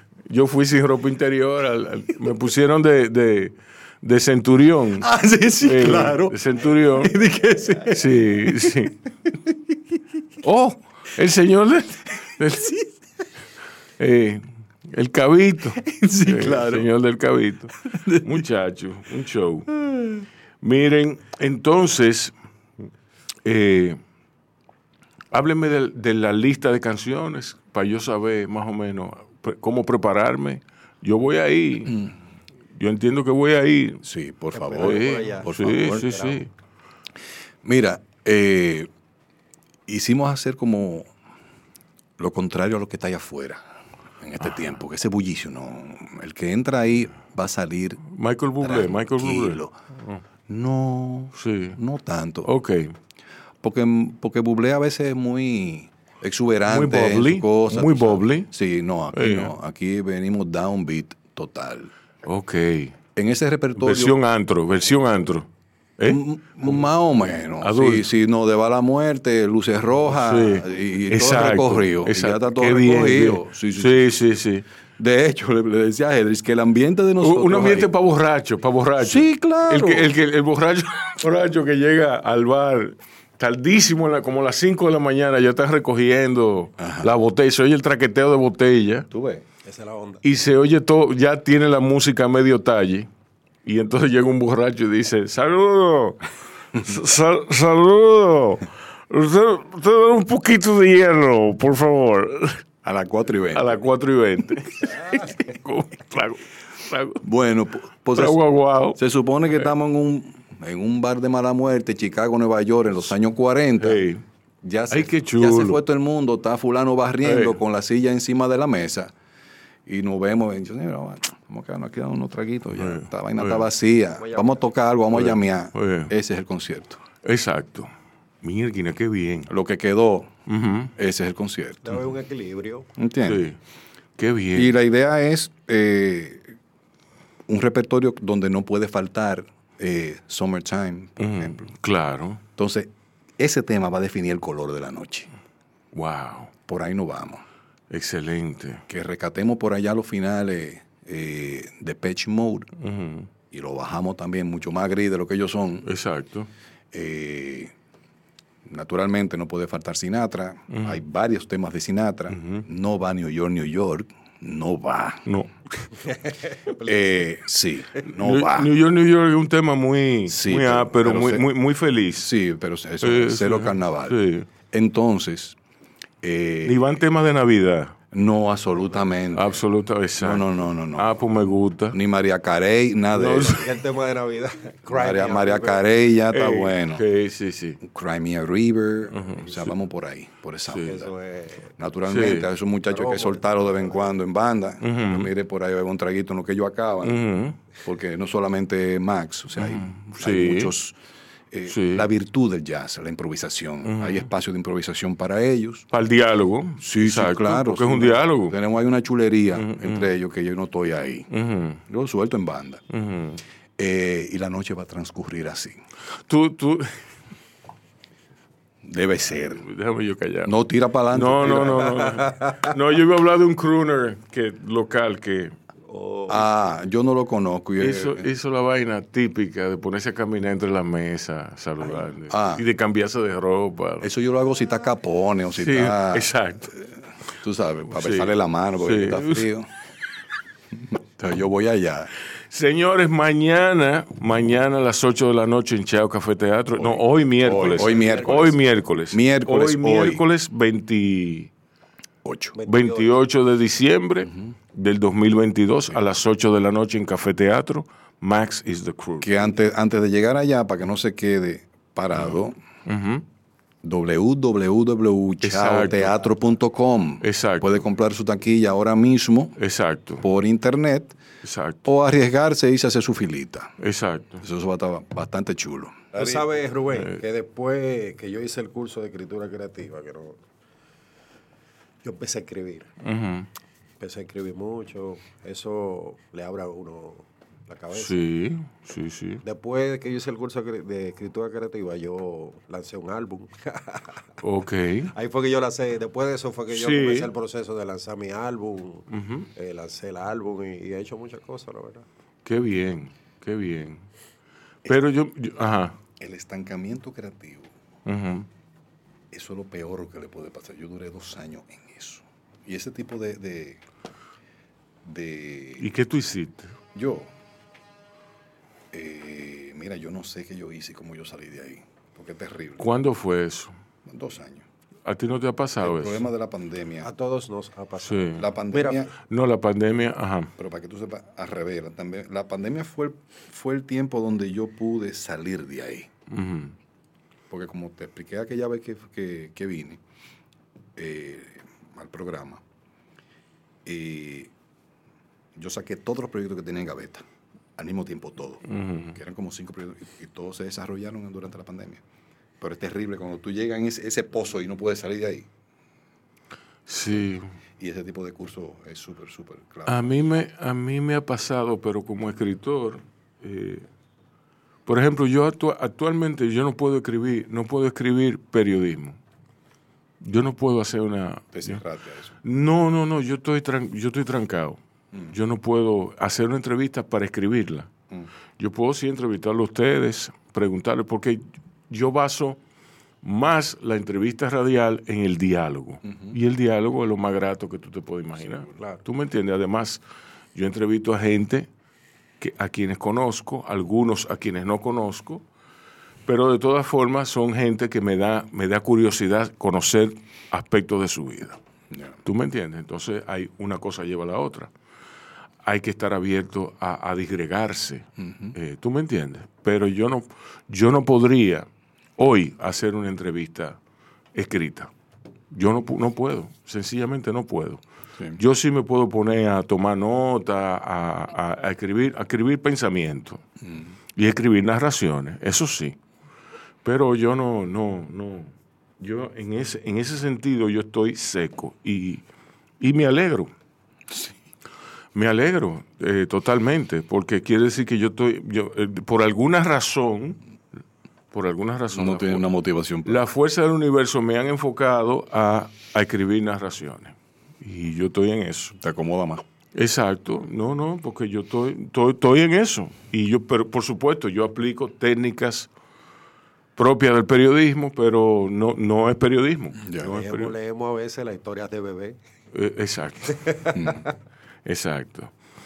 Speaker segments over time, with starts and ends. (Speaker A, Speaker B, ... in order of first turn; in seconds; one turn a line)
Speaker A: 0.2-7.1
Speaker B: 5.0-6.4
Speaker B: 6.9-8.8
Speaker A: 7.9-9.0
Speaker A: 10.4-12.8
Speaker A: 14.0-19.7
Speaker B: 15.8-16.9
Speaker B: 17.9-18.4
Speaker B: 19.8-20.2
Speaker A: 20.6-22.3
Speaker A: 23.4-24.0
Speaker A: 25.3-32.0
Speaker B: 31.9-32.1
Speaker A: 32.7-34.0
Speaker B: 34.0-36.1
Speaker C: 34.5-36.4
Speaker A: 34.8-36.5
Speaker B: 37.6-38.9
Speaker B: 39.9-41.1
Speaker B: 42.2-43.6
Speaker B: 44.2-48.0
Speaker A: 48.1-50.2
Speaker B: 48.6-49.7
Speaker B: 50.5-52.5
Speaker A: 51.4-51.8
Speaker A: 52.4-52.9
Speaker B: 53.6-61.9
Speaker A: 56.7-58.5
Speaker A: 59.1-59.5
Speaker A: 62.2-63.0
Speaker B: 63.1-64.2
Speaker A: 63.8-65.5
Speaker A: 66.0-66.9
Speaker B: 66.0-74.1
Speaker A: 67.6-68.1
Speaker A: 70.1-74.6
Speaker B: 75.0-77.9
Speaker A: 77.2-89.1
Speaker B: 79.0-80.1
Speaker B: 86.8-87.1
Speaker B: 89.1-89.4
Speaker C: 89.6-90.2
Speaker A: 90.2-93.1
Speaker A: 93.6-102.6
Speaker B: 102.8-103.8
Speaker A: 103.5-107.2
Speaker B: 107.2-108.4
Speaker A: 108.1-109.0
Speaker B: 108.9-114.0
Speaker A: 113.8-114.2
Speaker B: 114.6-119.1
Speaker A: 114.9-115.8
Speaker A: 117.2-117.6
Speaker B: 119.8-127.0
Speaker A: 122.8-123.7
Speaker C: 124.2-124.6
Speaker A: 125.1-126.1
Speaker A: 127.2-127.9
Speaker A: 128.4-129.5
Speaker B: 129.5-130.3
Speaker A: 130.5-130.9
Speaker B: 130.9-132.0
Speaker C: 131.8-132.9
Speaker B: 132.9-133.5
Speaker A: 133.2-133.6
Speaker A: 134.2-134.7
Speaker B: 134.5-136.5
Speaker B: 137.5-141.7
Speaker A: 141.2-142.4
Speaker B: 142.6-145.3
Speaker A: 145.9-146.5
Speaker B: 146.7-147.4
Speaker A: 147.9-148.8
Speaker B: 148.9-152.7
Speaker A: 152.8-153.3
Speaker B: 153.5-155.9
Speaker A: 155.8-156.5
Speaker B: 156.9-157.7
Speaker B: 158.6-165.2
Speaker A: 160.7-161.0
Speaker A: 162.3-162.6
Speaker A: 165.2-165.5
Speaker B: 166.8-168.7
Speaker A: 168.0-172.3
Speaker B: 170.3-171.4
Speaker B: 172.1-174.2
Speaker A: 173.0-174.5
Speaker B: 174.7-175.6
Speaker B: 176.2-176.9
Speaker A: 176.6-177.9
Speaker B: 178.1-179.6
Speaker A: 179.3-182.0
Speaker B: 180.2-181.1
Speaker B: 181.9-183.7
Speaker A: 183.1-183.7
Speaker C: 183.6-185.8
Speaker B: 184.9-187.0
Speaker A: 186.3-187.8
Speaker B: 187.8-191.1
Speaker A: 189.1-189.7
Speaker C: 190.8-191.7
Speaker B: 191.8-197.2
Speaker A: 192.1-192.5
Speaker C: 192.9-193.9
Speaker A: 194.8-195.3
Speaker A: 197.0-197.6
Speaker B: 197.8-201.0
Speaker A: 199.6-200.7
Speaker B: 201.5-205.8
Speaker A: 201.7-202.1
Speaker A: 203.8-204.3
Speaker A: 205.9-208.6
Speaker B: 206.8-211.3
Speaker A: 209.5-210.1
Speaker A: 211.3-211.8
Speaker B: 211.9-212.8
Speaker A: 212.9-213.4
Speaker B: 213.8-215.8
Speaker A: 216.3-216.9
Speaker B: 218.8-219.7
Speaker A: 219.6-220.6
Speaker B: 220.4-222.2
Speaker A: 221.1-225.5
Speaker C: 225.9-226.4
Speaker B: 226.3-228.3
Speaker A: 227.8-234.1
Speaker B: 232.3-232.6
Speaker B: 234.0-239.7
Speaker A: 235.6-236.7
Speaker A: 237.9-239.5
Speaker B: 240.9-242.1
Speaker A: 242.5-251.5
Speaker B: 246.8-248.6
Speaker C: 247.8-248.5
Speaker B: 249.1-250.2
Speaker B: 252.2-252.6
Speaker C: 252.6-253.2
Speaker A: 252.7-259.5
Speaker B: 259.2-262.6
Speaker A: 262.9-263.2
Speaker B: 263.8-269.6
Speaker A: 265.4-266.2
Speaker A: 267.2-267.8
Speaker A: 269.6-270.2
Speaker B: 270.2-271.2
Speaker A: 271.4-271.8
Speaker B: 271.8-273.7
Speaker A: 273.8-274.4
Speaker B: 274.4-276.5
Speaker C: 276.1-280.4
Speaker A: 276.9-277.2
Speaker C: 282.0-282.9
Speaker A: 283.0-283.5
Speaker C: 284.0-288.2
Speaker A: 287.9-289.4
Speaker C: 289.4-294.2
Speaker A: 294.4-295.1
Speaker C: 295.1-302.0
Speaker A: 296.7-297.3
Speaker A: 299.1-299.5
Speaker A: 302.4-304.0
Speaker A: 304.9-306.0
Speaker B: 306.2-307.7
Speaker A: 308.1-308.5
Speaker B: 309.3-313.8
Speaker B: 315.0-315.9
Speaker A: 315.8-316.7
Speaker B: 316.9-317.3
Speaker B: 318.9-322.9
Speaker A: 322.8-323.7
Speaker B: 324.1-324.6
Speaker A: 325.1-326.2
Speaker B: 325.8-327.1
Speaker C: 327.0-329.1
Speaker A: 328.0-328.4
Speaker B: 328.3-329.1
Speaker A: 329.3-330.5
Speaker B: 330.6-336.1
Speaker A: 336.3-336.7
Speaker B: 337.5-340.0
Speaker B: 340.9-342.6
Speaker B: 343.8-344.5
Speaker B: 345.6-347.2
Speaker B: 347.8-352.0
Speaker A: 348.7-349.1
Speaker B: 352.6-355.5
Speaker A: 356.9-357.5
Speaker B: 357.8-360.1
Speaker A: 359.9-363.9
Speaker A: 364.9-369.2
Speaker A: 370.2-371.8
Speaker B: 371.5-372.4
Speaker A: 372.4-374.8
Speaker A: 375.3-377.9
Speaker A: 378.6-382.6
Speaker A: 383.2-390.0
Speaker B: 386.1-386.3
Speaker C: 388.8-389.0
Speaker A: 390.5-391.7
Speaker A: 392.4-395.4
Speaker A: 396.2-401.6
Speaker B: 401.9-402.2
Speaker A: 402.2-404.7
Speaker A: 405.6-413.8
Speaker B: 408.2-408.5
Speaker A: 414.3-414.9
Speaker A: 415.5-417.8
Speaker A: 418.4-423.4
Speaker B: 423.6-423.9
Speaker A: 424.1-426.0
Speaker A: 426.8-432.2
Speaker A: 432.8-433.5
Speaker A: 435.1-440.4
Speaker A: 441.3-442.5
Speaker B: 441.9-443.2
Speaker A: 443.0-448.8
Speaker B: 448.8-449.4
Speaker A: 449.7-455.7
Speaker A: 456.8-460.5
Speaker B: 459.8-460.1
Speaker C: 460.0-462.2
Speaker A: 462.5-463.7
Speaker B: 463.7-464.0
Speaker A: 464.6-465.3